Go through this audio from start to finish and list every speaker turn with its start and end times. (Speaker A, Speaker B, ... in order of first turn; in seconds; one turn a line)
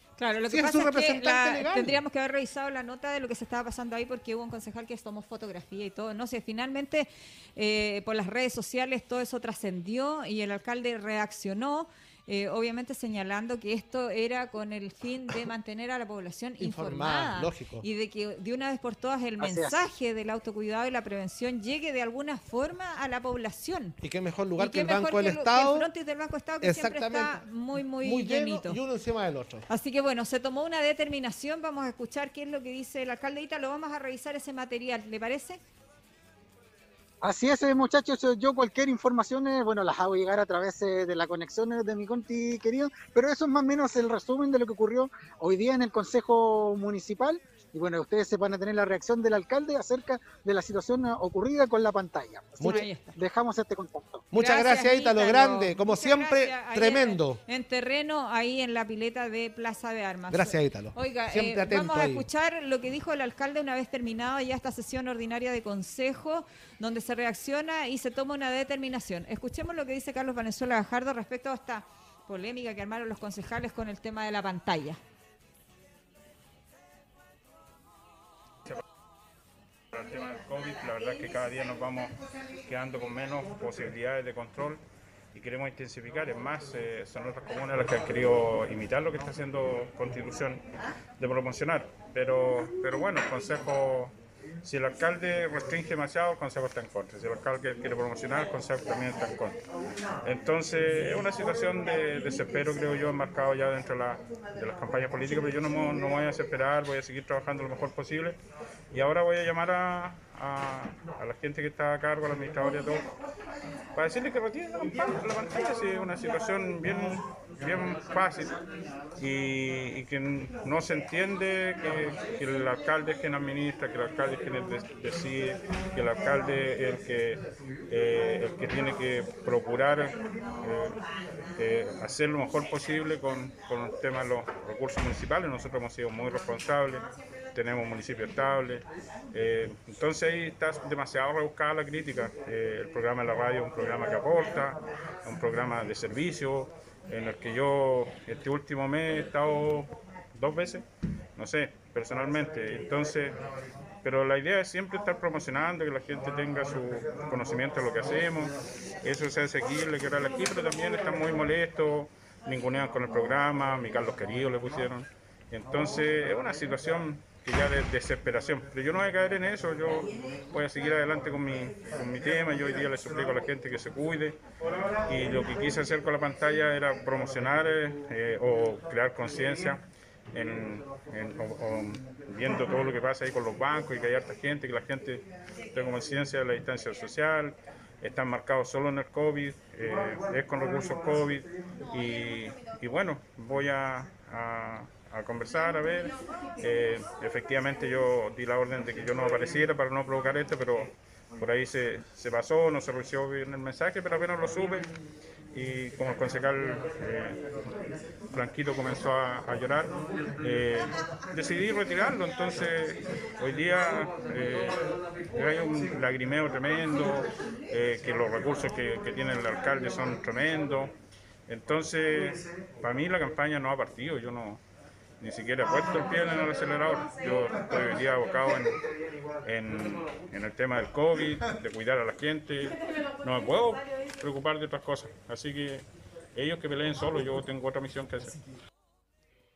Speaker A: 0.2-24.0
Speaker B: 0.5-2.0
Speaker B: 16.6-17.8
Speaker C: 19.4-19.8
Speaker B: 24.0-25.9
Speaker A: 24.6-28.8
Speaker B: 26.6-27.4
Speaker B: 28.0-29.6
Speaker A: 29.7-35.6
Speaker C: 37.2-54.2
Speaker B: 52.6-52.9
Speaker A: 52.6-53.1
Speaker B: 54.3-57.4
Speaker A: 54.4-75.0
Speaker B: 60.3-62.2
Speaker D: 79.9-84.8
Speaker D: 85.3-90.6
Speaker D: 91.2-99.6
Speaker D: 100.2-108.4
Speaker D: 108.9-113.0
Speaker D: 113.9-118.6
Speaker D: 119.2-131.0
Speaker D: 131.6-150.8
Speaker D: 151.3-153.4
Speaker D: 154.0-174.4
Speaker D: 175.1-179.8
Speaker D: 180.3-204.9
Speaker D: 205.5-207.4
Speaker D: 208.3-220.9
Speaker D: 221.5-224.6
Speaker D: 225.2-228.8
Speaker D: 229.4-238.4